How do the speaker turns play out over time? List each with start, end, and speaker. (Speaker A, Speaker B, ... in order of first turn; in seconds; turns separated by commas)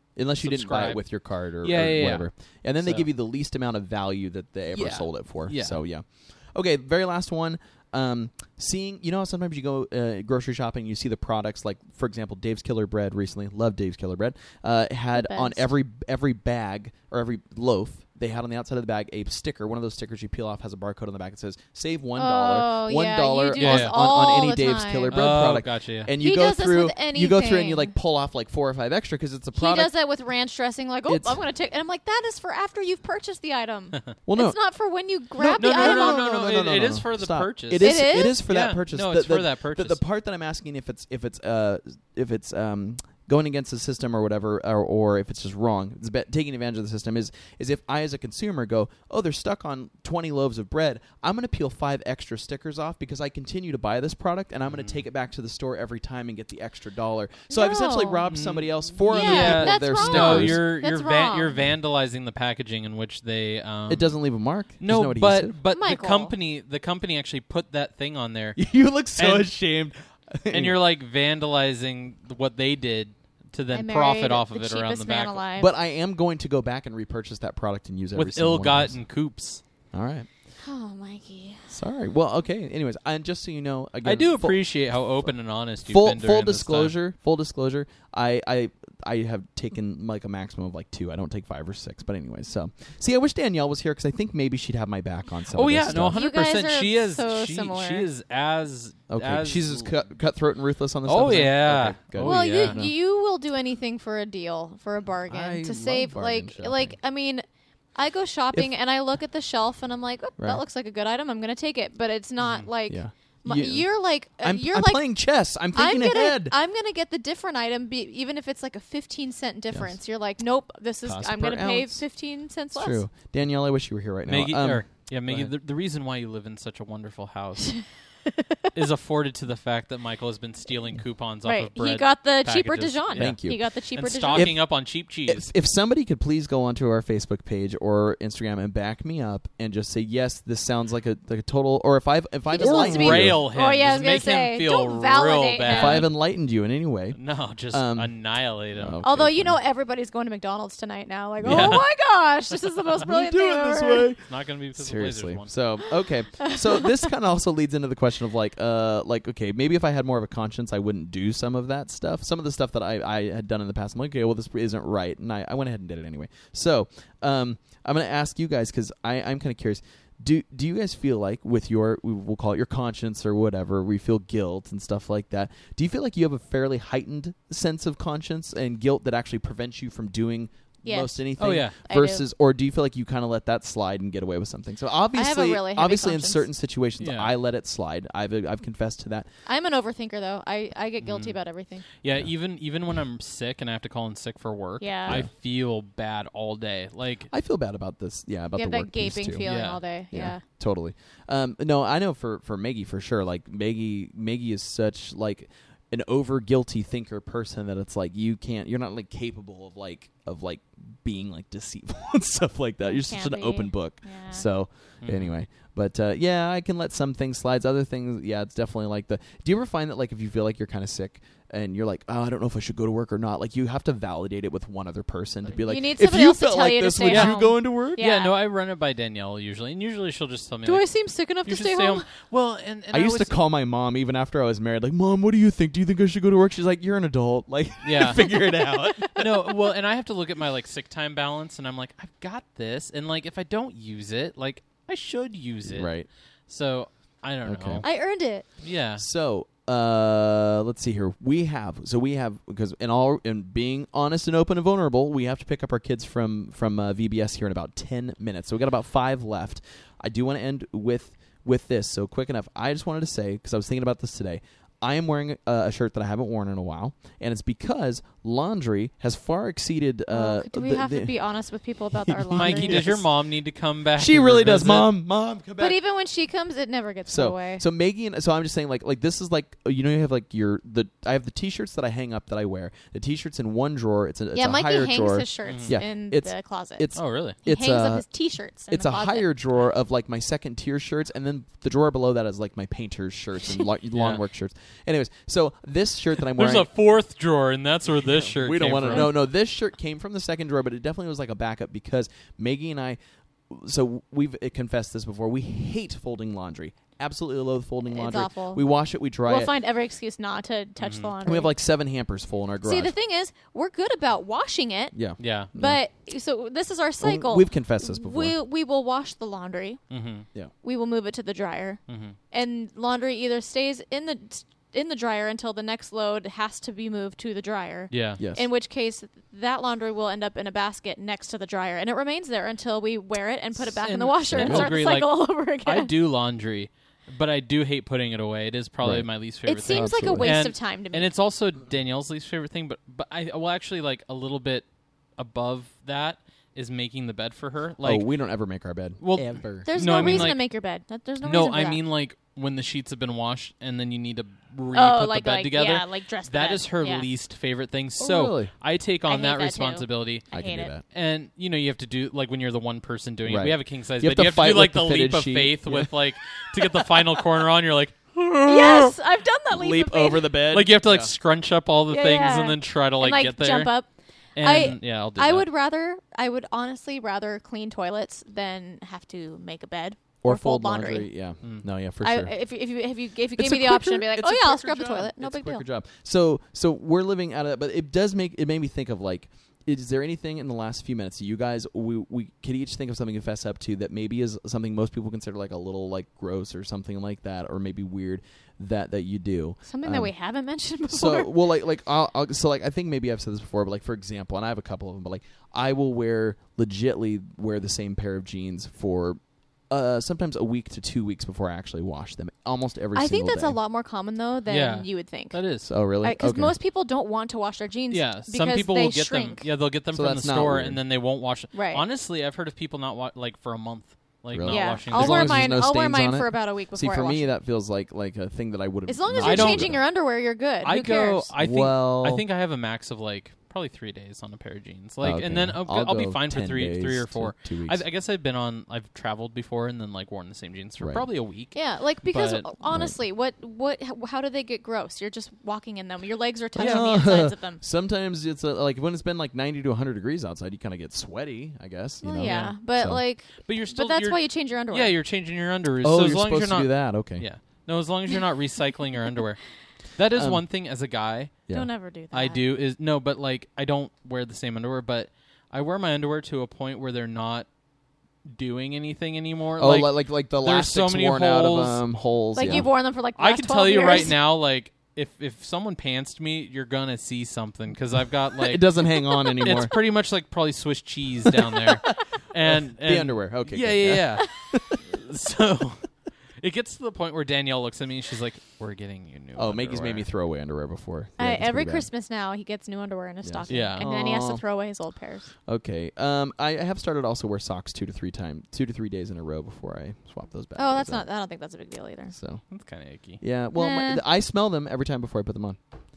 Speaker A: 0.2-29.9, Speaker B: 0.4-2.3, Speaker B: 2.8-3.1, Speaker B: 4.8-5.8, Speaker C: 15.2-15.6, Speaker C: 22.1-25.2, Speaker B: 23.6-23.9, Speaker B: 25.1-26.1, Speaker C: 26.2-27.9, Speaker C: 29.6-36.3, Speaker A: 31.1-31.4, Speaker A: 34.3-34.6, Speaker A: 35.4-60.6, Speaker B: 35.6-40.0, Speaker C: 37.8-38.4, Speaker B: 54.7-55.0, Speaker C: 57.5-58.2, Speaker B: 58.3-64.2, Speaker C: 59.1-61.7, Speaker A: 63.9-65.6, Speaker B: 64.8-68.6, Speaker C: 65.7-66.3, Speaker A: 68.6-70.8, Speaker B: 69.2-69.5, Speaker B: 70.5-75.4, Speaker C: 73.7-75.7, Speaker A: 75.6-79.0, Speaker B: 78.2-79.6, Speaker A: 79.9-80.3, Speaker C: 80.6-81.7, Speaker A: 81.7-84.7, Speaker B: 84.0-87.0, Speaker A: 85.8-96.2, Speaker B: 95.5-99.9, Speaker C: 95.9-98.1, Speaker A: 99.1-102.9, Speaker B: 101.1-102.8, Speaker C: 102.2-115.0, Speaker A: 105.3-107.0, Speaker B: 112.4-112.7, Speaker A: 112.9-113.9, Speaker A: 114.4-116.5, Speaker C: 115.7-123.0, Speaker A: 121.0-122.0, Speaker A: 122.7-125.5, Speaker B: 124.3-127.9, Speaker C: 128.3-128.7, Speaker B: 128.7-133.4, Speaker C: 131.4-134.5, Speaker A: 133.2-133.6, Speaker B: 134.0-135.5, Speaker A: 134.3-134.7, Speaker A: 135.3-143.4, Speaker C: 142.5-146.1, Speaker B: 142.6-146.1, Speaker A: 145.7-147.2, Speaker B: 147.1-149.0, Speaker A: 147.7-148.1, Speaker A: 148.8-149.6, Speaker C: 149.0-154.1, Speaker A: 151.4-151.8, Speaker B: 151.4-151.8, Speaker A: 153.0-154.2, Speaker B: 154.2-155.5, Speaker A: 154.7-189.3, Speaker C: 156.4-156.9, Speaker C: 180.8-181.3, Speaker B: 181.4-181.8, Speaker C: 181.8-182.2, Speaker C: 185.1-186.5, Speaker B: 187.0-187.3, Speaker C: 189.5-191.8, Speaker B: 191.0-191.4, Speaker B: 192.0-197.3, Speaker C: 194.8-195.2, Speaker A: 197.3-199.5, Speaker C: 198.6-200.4, Speaker B: 199.4-199.8, Speaker A: 200.1-228.0, Speaker C: 212.9-214.5, Speaker B: 215.0-215.3, Speaker C: 225.6-228.3, Speaker B: 227.1-230.9, Speaker C: 230.7-232.1, Speaker B: 231.4-233.4, Speaker A: 232.9-239.5, Speaker B: 237.8-245.9, Speaker A: 245.7-246.1, Speaker B: 246.5-247.9, Speaker A: 247.5-247.8, Speaker C: 247.8-248.5, Speaker B: 248.6-249.0, Speaker A: 249.0-271.1, Speaker C: 270.1-273.0, Speaker A: 272.0-273.1, Speaker B: 272.4-274.9, Speaker A: 274.0-275.8, Speaker C: 275.6-277.6, Speaker A: 277.1-288.1, Speaker C: 284.3-286.9, Speaker B: 285.4-285.8, Speaker B: 287.0-287.4, Speaker C: 287.4-289.3, Speaker A: 288.7-296.7, Speaker B: 293.9-294.2, Speaker B: 296.2-299.2, Speaker A: 298.1-303.0, Speaker C: 298.9-299.2, Speaker A: 303.5-309.5, Speaker C: 307.9-308.6, Speaker C: 309.3-311.5, Speaker B: 310.8-311.1, Speaker A: 311.2-312.9, Speaker C: 312.6-314.9, Speaker A: 314.9-315.8, Speaker B: 315.2-315.5, Speaker C: 315.6-319.8, Speaker A: 317.0-318.4, Speaker B: 319.9-320.3, Speaker C: 320.6-321.8, Speaker B: 321.9-322.2, Speaker C: 322.3-335.9, Speaker B: 327.9-328.2, Speaker A: 328.2-328.5, Speaker B: 333.7-344.6, Speaker A: 334.4-334.7, Speaker A: 338.8-339.1, Speaker C: 339.5-341.1, Speaker A: 339.7-340.4, Speaker B: 345.2-348.1, Speaker A: 347.8-350.3, Speaker B: 349.0-350.4, Speaker C: 349.6-351.8, Speaker B: 351.2-369.0, Speaker C: 354.7-357.1, Speaker A: 358.0-358.5, Speaker C: 359.1-360.7, Speaker A: 360.3-360.8, Speaker A: 363.3-366.0, Speaker A: 366.6-366.9, Speaker C: 368.5-370.4, Speaker A: 369.5-371.1, Speaker B: 370.5-373.7, Speaker C: 371.9-381.1, Speaker B: 374.4-375.5, Speaker A: 380.2-382.3, Speaker C: 382.0-385.6, Speaker A: 383.4-400.1, Speaker C: 399.7-401.3, Speaker A: 400.9-413.6, Speaker C: 412.9-415.4, Speaker B: 414.5-415.7, Speaker A: 415.6-416.5, Speaker C: 416.0-419.5, Speaker B: 417.9-425.5, Speaker A: 419.9-420.8, Speaker C: 421.5-421.8, Speaker A: 424.3-429.8, Speaker C: 424.5-427.2, Speaker C: 428.9-431.3, Speaker B: 429.2-429.8, Speaker B: 430.6-442.5, Speaker A: 431.4-432.2, Speaker A: 435.0-437.8, Speaker A: 440.8-441.1, Speaker C: 441.5-447.6, Speaker A: 442.6-443.0, Speaker A: 446.6-453.0, Speaker C: 452.0-455.0, Speaker B: 452.2-452.6, Speaker B: 453.4-459.4, Speaker A: 455.8-457.3, Speaker B: 459.9-461.4, Speaker A: 460.1-460.4, Speaker C: 461.5-462.4, Speaker B: 462.1-467.5, Speaker B: 468.2-471.9, Speaker A: 469.6-472.7, Speaker C: 472.4-474.2, Speaker B: 472.4-490.1, Speaker A: 478.4-479.7, Speaker A: 481.3-484.8, Speaker A: 489.4-491.9, Speaker C: 491.2-495.3, Speaker A: 493.2-494.4, Speaker B: 493.5-493.9, Speaker A: 495.5-501.1, Speaker C: 500.6-502.1, Speaker A: 502.1-502.4, Speaker B: 502.5-503.2, Speaker A: 503.2-505.6, Speaker C: 503.6-504.0